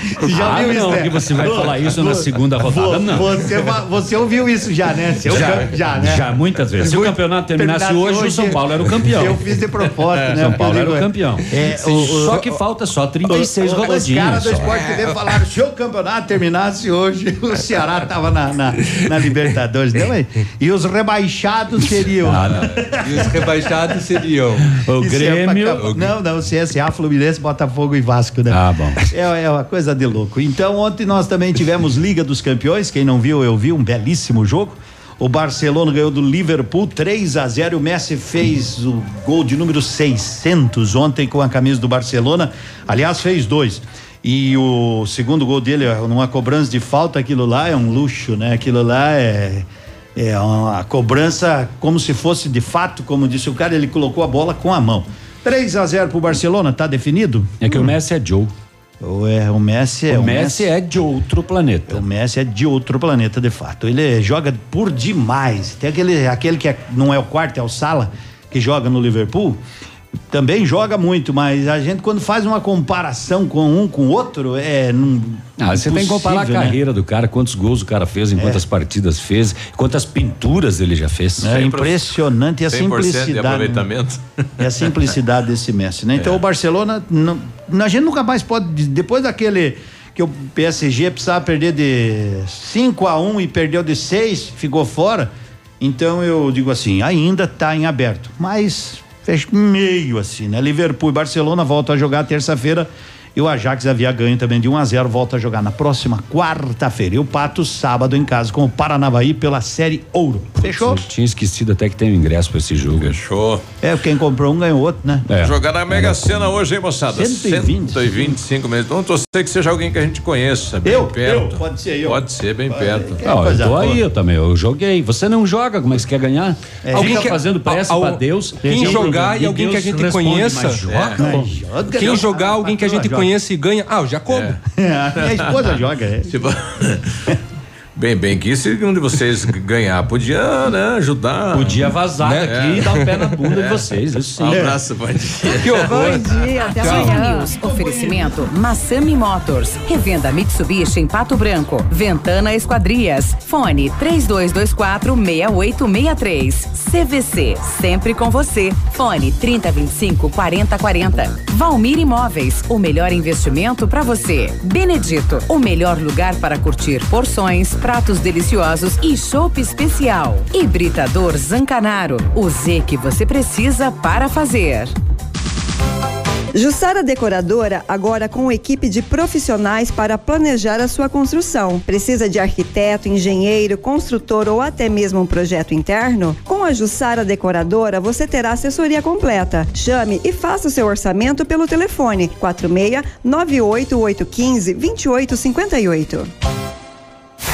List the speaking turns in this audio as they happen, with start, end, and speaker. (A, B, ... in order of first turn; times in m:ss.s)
0:00.2-0:12.5 A
0:00.2-0:03.4 B
0:05.3-0:09.4 B
0:05.3-0:05.6 C
0:10.3-0:14.8 B
0:12.0-0:12.4 D
0:13.2-0:22.6 A
0:22.2-0:22.6 B
0:23.0-0:24.7 D
0:24.9-0:25.9 B
0:25.0-0:49.6 A
0:25.8-0:26.1 D
0:28.5-0:29.0 B
0:50.2-0:57.9 A
0:57.6-0:58.5 B
0:59.0-1:00.7 A
1:00.1-1:02.0 B
1:01.9-1:09.6 A
1:10.3-1:16.8 A
1:15.6-1:21.5 B
1:18.4-1:18.6 A
1:21.4-1:23.8 A
1:21.4-1:22.0 C
1:22.7-1:24.9 C
1:24.6-1:35.3 A
1:26.2-1:26.4 C
1:35.8-1:51.0 A
1:50.6-1:53.2 B
1:52.9-1:53.6 C
1:53.8-1:55.2 A
1:55.3-1:56.5 B
1:55.4-2:03.2 C
1:57.2-1:58.0 A
2:00.8-2:04.0 A
2:03.2-2:11.6 B
2:06.8-2:07.4 A
2:06.9-2:11.3 D
2:08.6-2:09.2 A
2:10.9-2:11.1 C
2:11.1-2:13.3 A
2:11.9-2:14.5 D
2:14.3-2:14.6 C
2:14.8-2:16.3 A
2:15.2-2:15.8 C
2:16.3-2:17.1 C
2:18.0-2:21.9 C
2:21.5-2:24.7 B
2:22.2-2:23.0 D
2:22.5-2:22.8 C
2:23.5-2:26.3 C
2:25.6-2:27.2 D
2:25.8-2:28.2 E
2:26.8-2:54.9 F
2:56.5-3:16.3 E